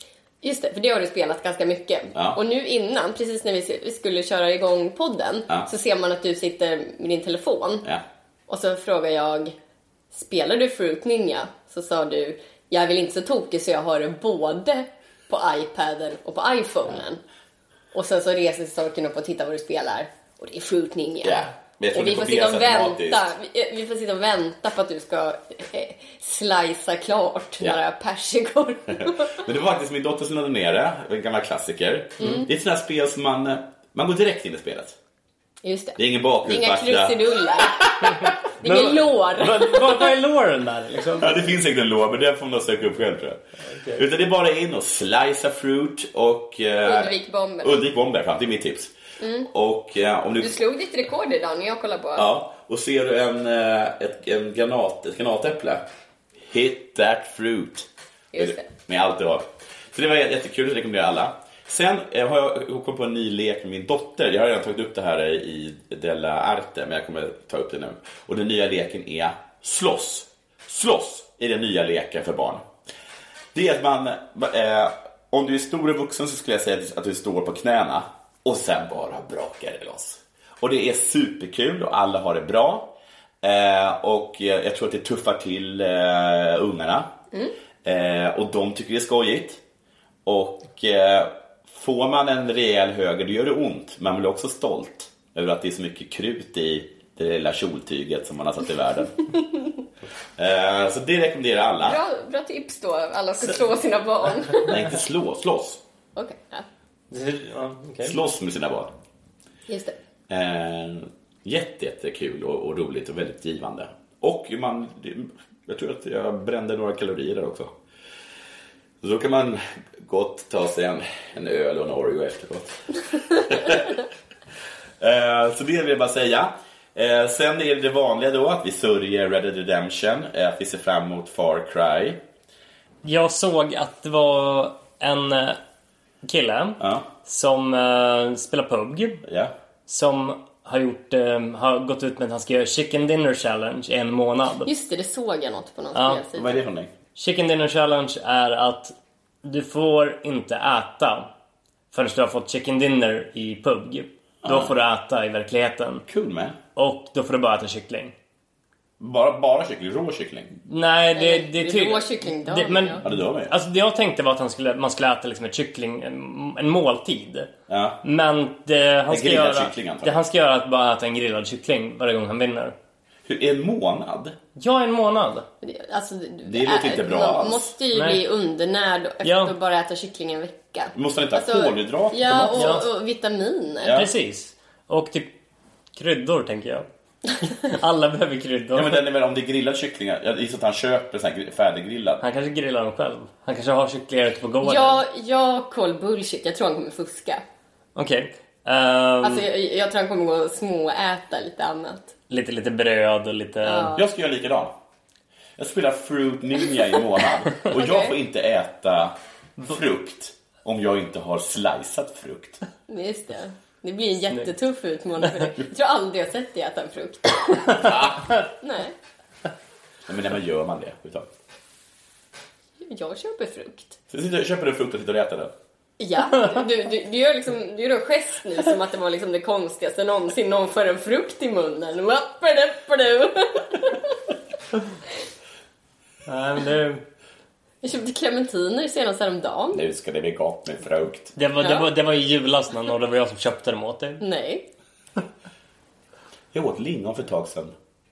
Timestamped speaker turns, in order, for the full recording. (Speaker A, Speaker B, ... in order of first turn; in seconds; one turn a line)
Speaker A: 0.4-7.8
Speaker A: 8.5-9.6
Speaker A: 10.1-17.2
Speaker A: 17.9-29.3
Speaker B: 21.2-23.3
Speaker B: 29.0-35.0
Speaker A: 32.2-32.5
Speaker A: 35.6-37.9
Speaker B: 36.0-38.4
Speaker C: 38.2-41.4
Speaker A: 38.6-39.9
Speaker B: 41.2-43.4
Speaker C: 43.6-44.0
Speaker B: 44.0-48.9
Speaker A: 46.9-47.8
Speaker A: 49.2-49.5
Speaker B: 49.5-50.6
Speaker A: 50.4-52.3
Speaker B: 52.2-55.9
Speaker B: 56.5-72.6
Speaker A: 58.3-58.7
Speaker B: 73.5-87.1
Speaker B: 87.8-89.6
Speaker B: 90.3-99.2
Speaker B: 100.4-102.0
Speaker A: 101.8-104.8
Speaker B: 104.7-105.8
Speaker A: 106.2-106.7
Speaker C: 107.1-108.2
Speaker B: 108.0-108.9
Speaker A: 109.7-110.0
Speaker B: 110.3-117.7
Speaker B: 119.0-124.0
Speaker B: 125.0-132.2
Speaker C: 133.0-135.6
Speaker C: 136.2-139.2
Speaker B: 136.8-137.1
Speaker B: 139.2-139.5
Speaker C: 139.9-144.7
Speaker A: 144.7-146.5
Speaker C: 145.9-146.2
Speaker B: 146.3-146.9
Speaker C: 147.2-151.3
Speaker C: 151.9-156.1
Speaker B: 154.4-154.8
Speaker B: 156.1-156.6
Speaker C: 156.8-158.2
Speaker B: 159.0-160.5
Speaker C: 160.7-167.5
Speaker A: 161.2-163.0
Speaker B: 163.0-163.5
Speaker B: 167.7-168.0
Speaker C: 168.0-172.8
Speaker B: 169.1-170.2
Speaker B: 173.3-174.3
Speaker C: 174.6-175.5
Speaker A: 175.6-184.0
Speaker B: 176.5-177.7
Speaker C: 177.9-178.2
Speaker C: 179.2-179.6
Speaker B: 180.9-182.7
Speaker C: 182.5-182.9
Speaker B: 183.8-184.1
Speaker C: 183.9-185.3
Speaker C: 186.0-186.9
Speaker C: 187.4-189.0
Speaker B: 188.7-192.2
Speaker C: 192.2-195.0
Speaker A: 194.6-197.4
Speaker C: 198.0-199.5
Speaker A: 199.2-202.1
Speaker C: 202.3-203.9
Speaker A: 203.6-204.0
Speaker B: 203.9-204.7
Speaker B: 205.6-209.2
Speaker A: 207.7-208.2
Speaker B: 209.7-212.6
Speaker A: 212.9-217.9
Speaker B: 217.8-218.3
Speaker A: 218.6-218.9
Speaker B: 220.1-221.3
Speaker A: 222.8-224.0
Speaker B: 224.1-225.5
Speaker A: 226.0-234.2
Speaker C: 236.3-237.0
Speaker A: 237.8-239.8
Speaker B: 239.7-241.4
Speaker C: 241.4-244.2
Speaker A: 241.6-241.9
Speaker A: 244.2-244.7
Speaker B: 246.5-247.7